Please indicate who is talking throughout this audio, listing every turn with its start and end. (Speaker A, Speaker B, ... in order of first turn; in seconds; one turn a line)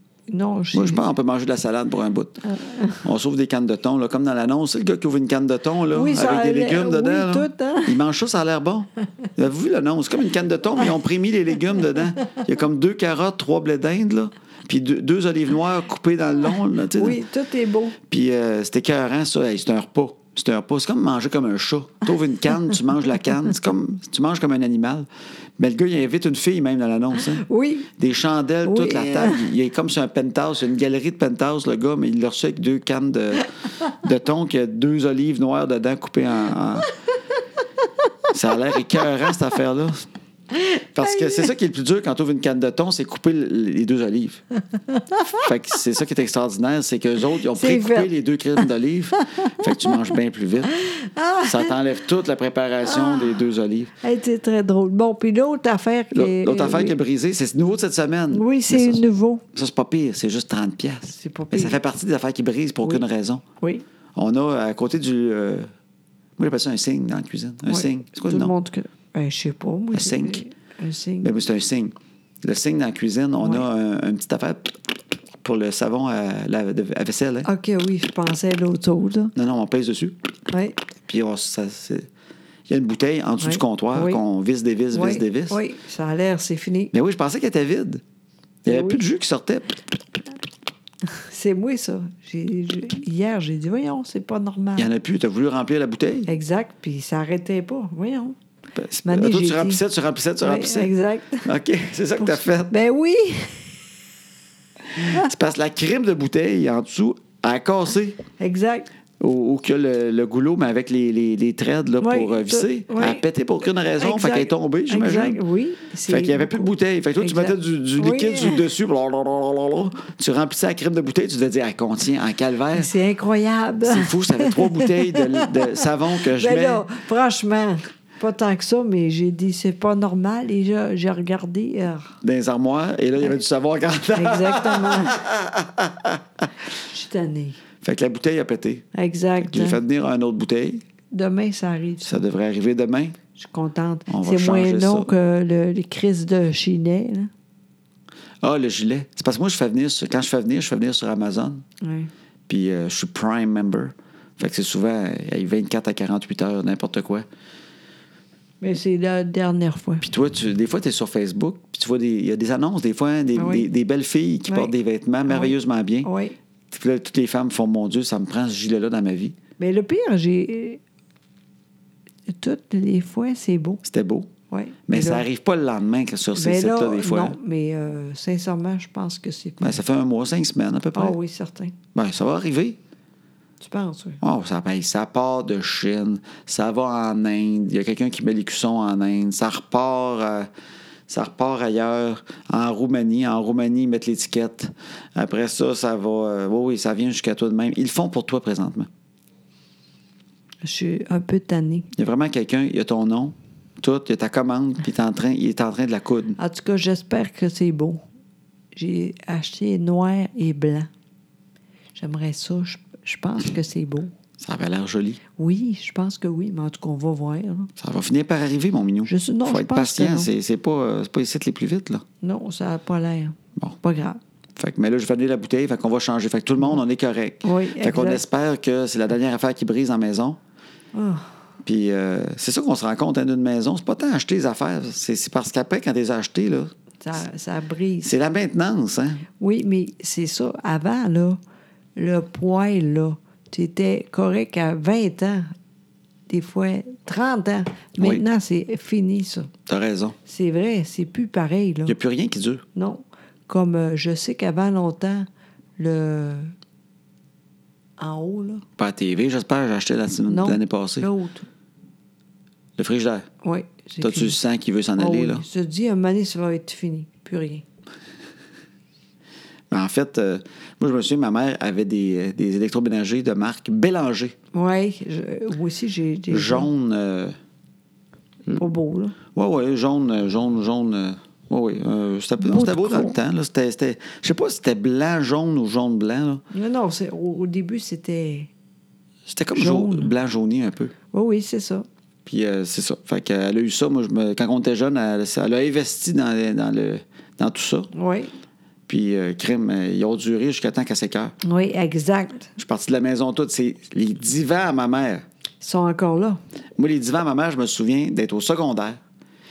Speaker A: 0.3-1.0
Speaker B: 0.7-2.4
Speaker A: 2.5-3.0
Speaker B: 3.0-17.2
Speaker A: 5.9-8.0
Speaker A: 16.9-18.0
Speaker B: 18.1-25.1
Speaker B: 25.6-27.4
Speaker A: 27.3-27.9
Speaker B: 28.0-36.9
Speaker A: 28.6-29.5
Speaker B: 38.3-40.0
Speaker A: 40.5-41.5
Speaker B: 40.9-44.4
Speaker A: 44.9-45.3
Speaker B: 45.3-50.7
Speaker A: 47.5-48.6
Speaker A: 49.6-50.0
Speaker A: 50.8-51.7
Speaker B: 51.4-53.9
Speaker A: 52.8-53.5
Speaker A: 54.0-57.0
Speaker B: 56.1-59.0
Speaker A: 58.3-59.4
Speaker B: 59.5-63.4
Speaker A: 61.1-61.8
Speaker B: 64.2-65.7
Speaker B: 66.4-68.5
Speaker A: 67.7-71.3
Speaker B: 69.9-70.4
Speaker B: 71.2-74.7
Speaker A: 73.4-73.7
Speaker B: 75.4-77.5
Speaker A: 77.4-79.3
Speaker B: 79.3-80.2
Speaker A: 80.5-80.8
Speaker B: 81.1-82.1
Speaker B: 82.7-85.6
Speaker A: 83.4-84.2
Speaker A: 84.9-86.9
Speaker B: 86.9-88.0
Speaker B: 88.6-90.0
Speaker A: 88.7-89.0
Speaker A: 91.1-94.9
Speaker B: 94.8-96.3
Speaker A: 96.3-98.4
Speaker B: 98.8-100.9
Speaker A: 99.0-99.8
Speaker A: 100.4-101.5
Speaker B: 101.4-102.8
Speaker A: 102.2-103.7
Speaker A: 105.0-105.3
Speaker B: 105.0-108.2
Speaker A: 108.4-108.9
Speaker B: 109.2-115.4
Speaker A: 112.0-113.2
Speaker A: 114.0-118.7
Speaker B: 116.1-122.9
Speaker A: 122.7-132.2
Speaker B: 123.8-126.8
Speaker B: 132.2-136.4
Speaker A: 134.1-135.2
Speaker A: 136.9-137.6
Speaker B: 137.8-138.8
Speaker A: 138.9-139.8
Speaker B: 139.4-140.8
Speaker A: 141.1-142.2
Speaker B: 142.1-143.2
Speaker A: 143.3-147.3
Speaker B: 144.1-145.1
Speaker B: 148.4-151.6
Speaker A: 151.8-152.1
Speaker B: 152.5-157.3
Speaker A: 158.6-160.1
Speaker B: 160.0-166.1
Speaker A: 163.4-163.7
Speaker A: 164.5-164.7
Speaker A: 165.3-166.4
Speaker B: 166.7-169.3
Speaker A: 169.6-170.8
Speaker A: 172.3-173.8
Speaker B: 173.8-174.3
Speaker A: 174.5-175.2
Speaker B: 174.9-177.4
Speaker A: 176.3-179.8
Speaker B: 179.6-181.2
Speaker A: 180.9-181.7
Speaker B: 181.9-182.8
Speaker A: 183.6-184.2
Speaker B: 184.2-190.5
Speaker B: 191.1-198.9
Speaker A: 200.6-201.9
Speaker B: 201.9-206.4
Speaker A: 206.4-208.0
Speaker A: 208.7-210.9
Speaker A: 211.9-214.1
Speaker B: 214.4-215.2
Speaker A: 215.4-217.7
Speaker B: 217.8-222.0
Speaker A: 219.1-220.3
Speaker A: 222.2-224.2
Speaker B: 224.6-230.4
Speaker A: 227.4-228.2
Speaker A: 230.9-231.3
Speaker B: 231.6-236.7
Speaker A: 237.0-238.1
Speaker B: 238.0-239.2
Speaker A: 239.3-241.4
Speaker A: 241.9-245.5
Speaker A: 246.3-249.5
Speaker B: 249.7-250.2
Speaker A: 250.3-251.9
Speaker B: 251.9-252.6
Speaker A: 252.7-255.3
Speaker A: 255.8-256.5
Speaker A: 258.0-258.6
Speaker B: 258.8-261.1
Speaker A: 260.3-261.5
Speaker B: 262.8-263.3
Speaker A: 263.4-264.4
Speaker B: 264.0-265.4
Speaker A: 265.0-267.6
Speaker B: 269.7-274.3
Speaker A: 274.5-276.7
Speaker B: 276.3-277.4
Speaker A: 278.6-279.1
Speaker B: 279.3-286.4
Speaker A: 282.4-283.1
Speaker A: 286.5-288.5
Speaker B: 289.3-290.9
Speaker A: 289.5-290.1
Speaker A: 291.1-291.9
Speaker B: 292.3-297.9
Speaker A: 297.9-298.3
Speaker B: 298.9-301.3
Speaker A: 301.4-302.5
Speaker B: 302.6-305.2
Speaker A: 305.6-306.4
Speaker B: 306.8-309.0